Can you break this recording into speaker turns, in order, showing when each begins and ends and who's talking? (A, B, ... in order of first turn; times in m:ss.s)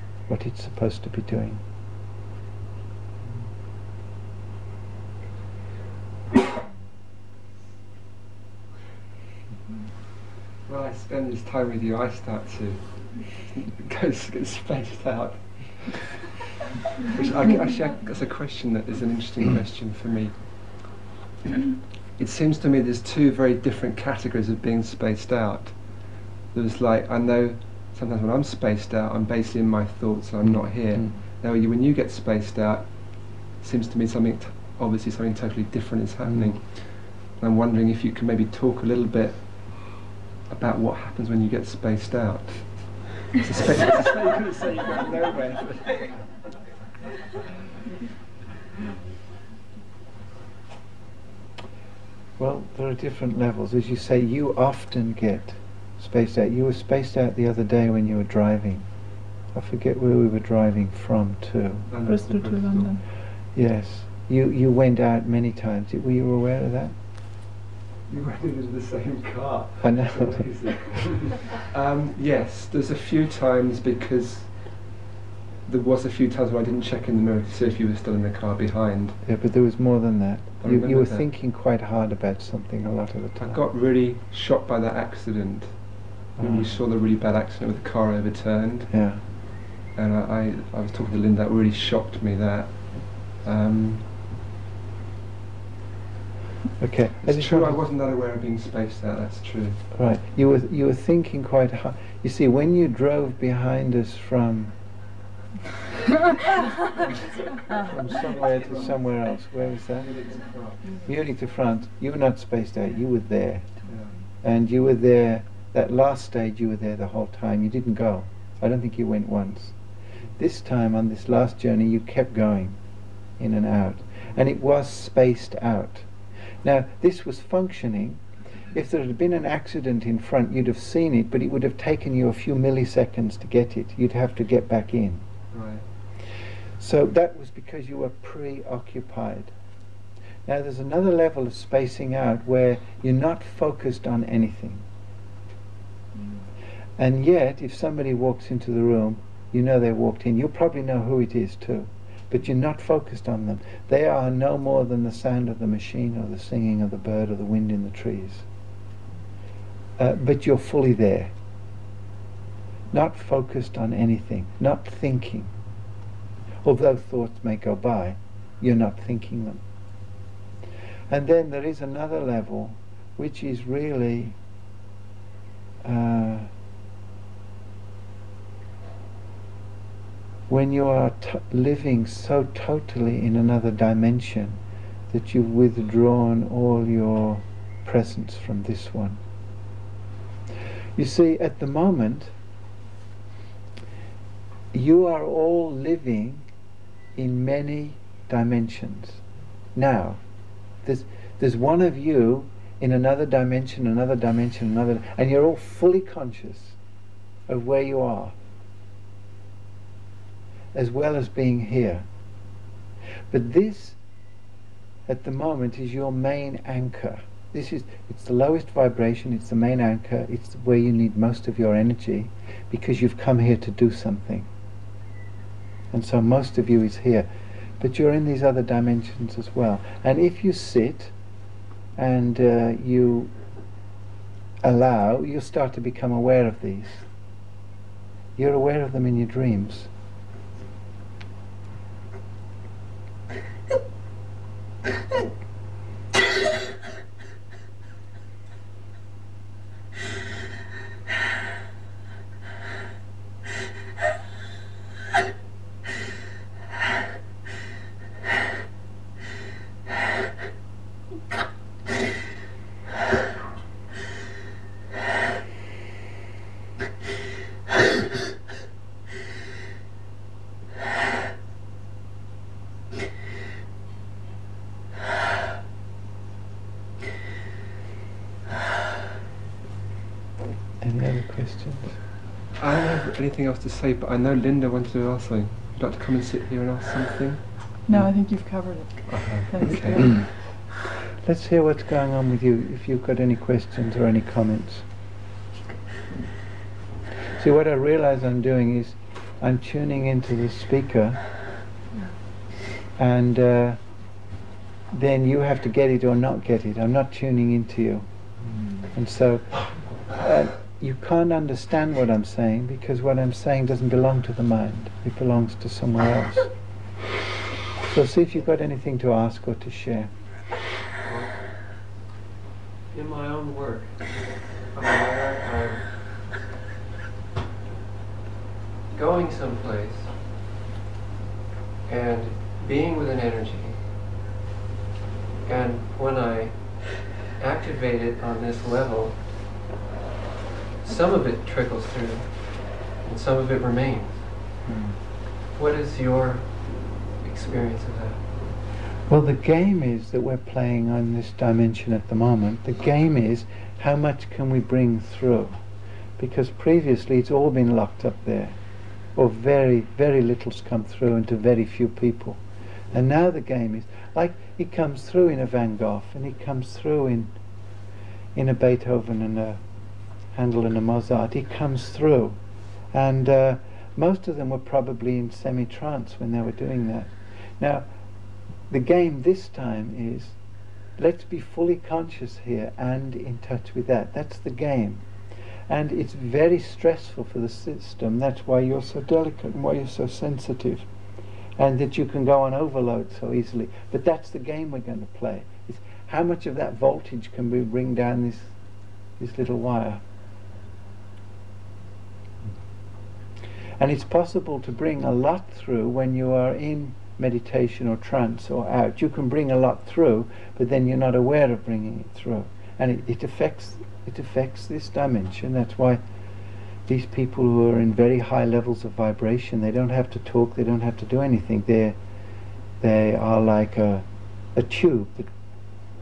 0:00.3-0:01.6 A
0:10.7-0:16.3 B
0:17.0-0:20.4 B
0:22.2-0:25.8 B
0:26.5-0:46.1 B
0:30.4-0:31.2 A
0:36.3-0:36.6 A
0:52.4-0:58.8 A
0:59.5-1:01.9 A
1:01.9-1:03.0 B
1:02.1-1:03.0 C
1:03.5-1:07.0 A
1:08.1-1:14.8 B
1:09.8-1:10.5 A
1:15.6-1:19.2 B
1:19.2-1:23.6 A
1:20.6-1:21.3 B
1:23.4-1:28.9 B
1:26.4-1:26.7 A
1:28.9-1:29.2 A
1:29.9-1:34.1 B
1:36.8-1:37.8 A
1:37.2-1:39.8 B
1:39.9-1:44.8 A
1:47.7-1:50.2 A
1:48.2-1:49.0 B
1:50.0-1:50.9 B
1:50.9-1:53.8 A
1:54.4-1:59.8 A
2:00.4-2:02.8 A
2:03.4-2:06.1 A
2:06.6-2:15.2 A
2:15.5-2:15.8 B
2:16.8-2:19.5 A
2:20.4-2:24.8 A
2:27.0-2:38.4 A
2:40.0-2:41.3 A
2:42.9-2:45.5 A
2:46.6-2:49.6 A
2:51.1-2:54.4 A
2:55.8-2:56.5 A
3:00.5-3:09.2 A
3:11.0-3:12.3 A
3:14.7-3:16.4 A
3:17.2-3:19.2 A
3:19.8-3:20.2 A
3:20.8-3:26.8 A
3:27.5-3:28.4 A
3:30.7-3:32.1 A
3:33.3-3:34.0 A
3:35.1-3:44.5 A
3:45.9-3:51.1 A
3:52.0-3:53.3 A
3:54.6-3:57.0 A
3:58.4-3:59.9 A
4:40.8-4:42.0 A
4:42.6-4:47.7 B
4:47.9-4:50.2 C
4:49.1-4:50.2 B
4:51.1-4:54.8 A
4:57.4-5:01.2 A
5:03.0-5:03.8 A
5:04.9-5:08.1 A
5:08.9-5:16.5 A
5:17.8-5:20.1 A
5:21.0-5:21.4 D
5:22.9-5:26.2 D
5:28.9-5:30.3 D
5:31.8-5:33.9 D
5:35.4-5:39.4 D
5:40.8-5:44.3 D
5:44.6-5:45.0 A
5:45.5-5:48.2 D
5:49.1-5:55.6 A
5:56.2-5:58.6 A
5:59.1-6:07.4 A
6:08.3-6:09.6 A
6:10.3-6:12.4 A
6:12.9-6:17.8 A
6:18.7-6:20.4 A
6:21.0-6:25.0 A
6:25.7-6:30.9 A
6:31.6-6:38.5 A
6:39.2-6:40.0 A
6:43.8-6:56.0 A
6:56.8-7:02.0 A
7:02.8-7:05.3 A